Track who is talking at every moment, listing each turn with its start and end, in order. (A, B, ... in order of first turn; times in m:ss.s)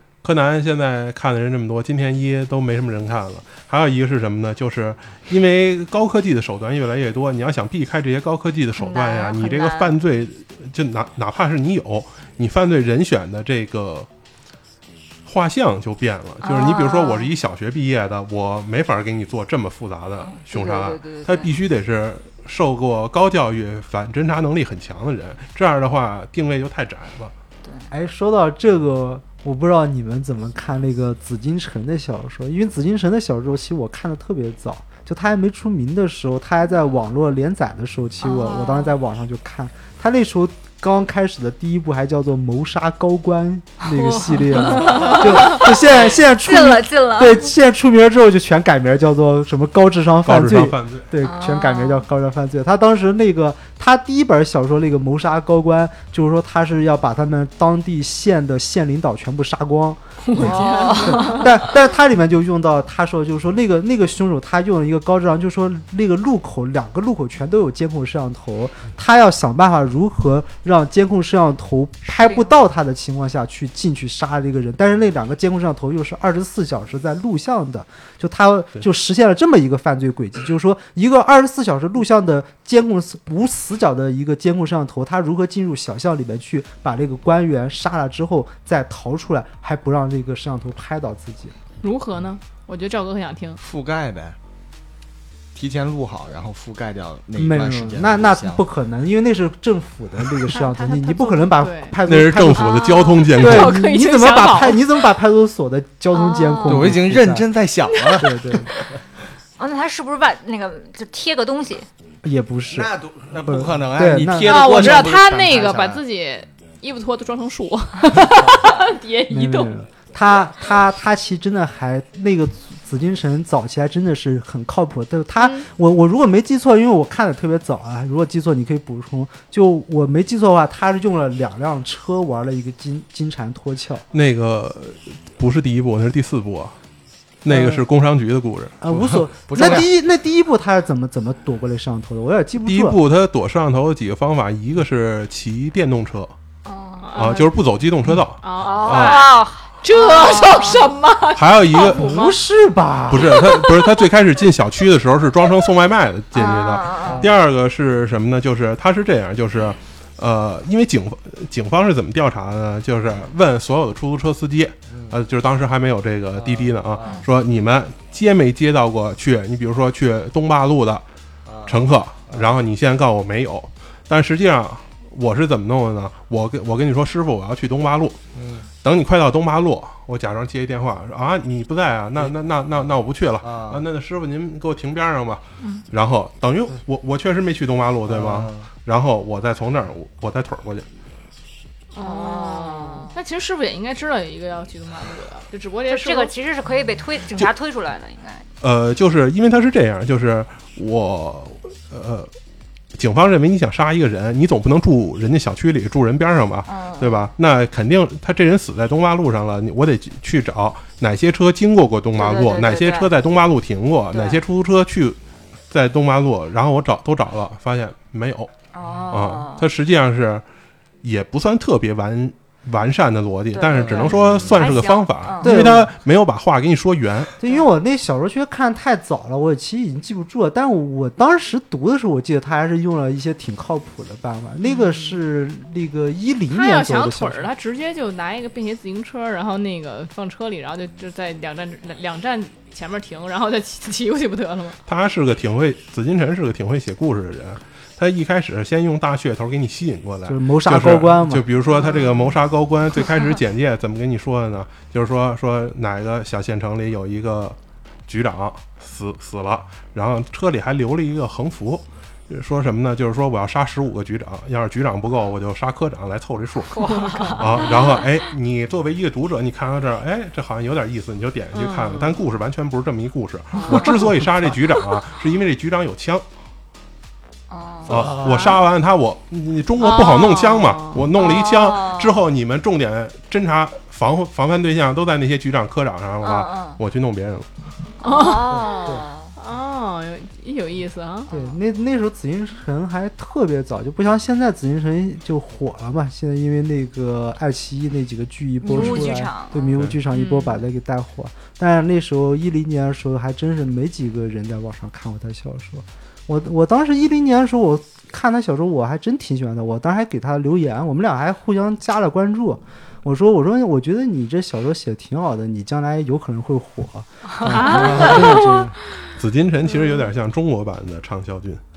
0:00.2-0:14.1 A
0:08.8-0:10.0 B
0:15.3-0:27.3 A
0:16.4-0:17.3 B
0:20.2-0:21.5 B
0:27.6-0:27.9 B
0:27.9-1:31.6 C
0:38.2-0:38.9 B
0:43.8-0:47.5 B
0:44.9-0:45.2 D
0:50.2-0:51.1 A
0:51.2-0:52.1 B
1:00.2-1:01.5 D
1:00.4-1:01.5 B
1:12.1-1:12.5 B
1:31.8-1:33.6 D
1:33.6-1:34.4 E
1:35.5-1:38.6 E
1:37.4-1:42.8 C
1:40.5-1:42.0 D
1:42.0-1:43.8 A
1:42.5-1:43.3 B
1:43.3-1:44.8 D
1:43.4-1:47.5 C
1:46.1-1:47.0 B
1:46.6-1:48.4 E
1:47.9-1:48.2 D
1:48.2-1:48.7 C
1:49.6-1:51.9 B
1:52.2-1:52.9 C
1:52.7-1:56.0 E
1:53.4-1:55.0 C
1:54.4-1:59.7 D
1:58.2-1:58.6 E
1:59.3-2:14.0 C
2:05.4-2:05.7 D
2:14.1-2:16.8 A
2:17.4-2:18.9 A
2:17.5-2:17.8 C
2:18.8-2:23.0 C
2:18.9-2:19.9 E
2:22.7-2:26.3 A
2:26.6-2:27.2 B
2:27.0-2:27.5 D
2:27.2-2:29.4 A
2:28.4-2:32.4 D
2:28.6-2:30.9 B
2:31.4-2:32.1 A
2:31.7-2:33.6 C
2:33.1-2:51.0 A
2:33.2-2:33.7 D
2:36.3-2:37.3 B
2:37.0-2:37.4 E
2:44.9-2:45.2 E
2:46.4-2:47.2 E
2:51.5-2:52.5 E
2:51.7-2:58.2 A
2:58.4-2:58.7 E
2:58.8-3:10.9 A
3:03.4-3:03.8 E
3:08.1-3:08.7 E
3:11.9-3:16.3 D
3:12.0-3:13.2 B
3:15.9-3:18.5 B
3:18.6-3:22.3 A
3:23.0-3:35.2 A
3:26.7-3:27.3 B
3:32.2-3:33.1 B
3:34.1-3:34.4 B
3:35.7-3:38.5 A
3:38.7-3:39.7 B
3:39.1-3:40.4 A
3:41.0-3:47.3 A
3:43.5-3:45.5 B
3:43.8-3:44.6 E
3:45.4-3:45.9 C
3:47.4-3:57.5 C
3:54.6-3:55.2 D
3:56.5-4:04.8 D
4:04.9-4:17.6 A
4:10.3-4:11.5 C
4:11.7-4:12.3 D
4:18.1-4:36.2 A
4:26.8-4:27.8 B
4:26.9-4:27.4 D
4:31.5-4:32.2 D
4:33.6-4:34.0 B
4:33.7-4:34.0 D
4:37.5-4:38.2 B
4:37.9-4:47.5 A
4:37.9-4:38.5 E
4:38.2-4:38.6 D
4:39.8-4:41.1 D
4:41.2-4:42.2 B
4:46.2-4:46.8 B
4:48.0-4:49.3 B
4:48.0-4:51.3 D
4:51.3-4:51.6 B
4:51.3-5:18.8 C
4:58.6-4:59.8 B
5:00.1-5:00.6 D
5:17.4-5:18.4 B
5:17.5-5:18.6 D
5:17.7-5:18.2 E
5:19.2-5:21.6 A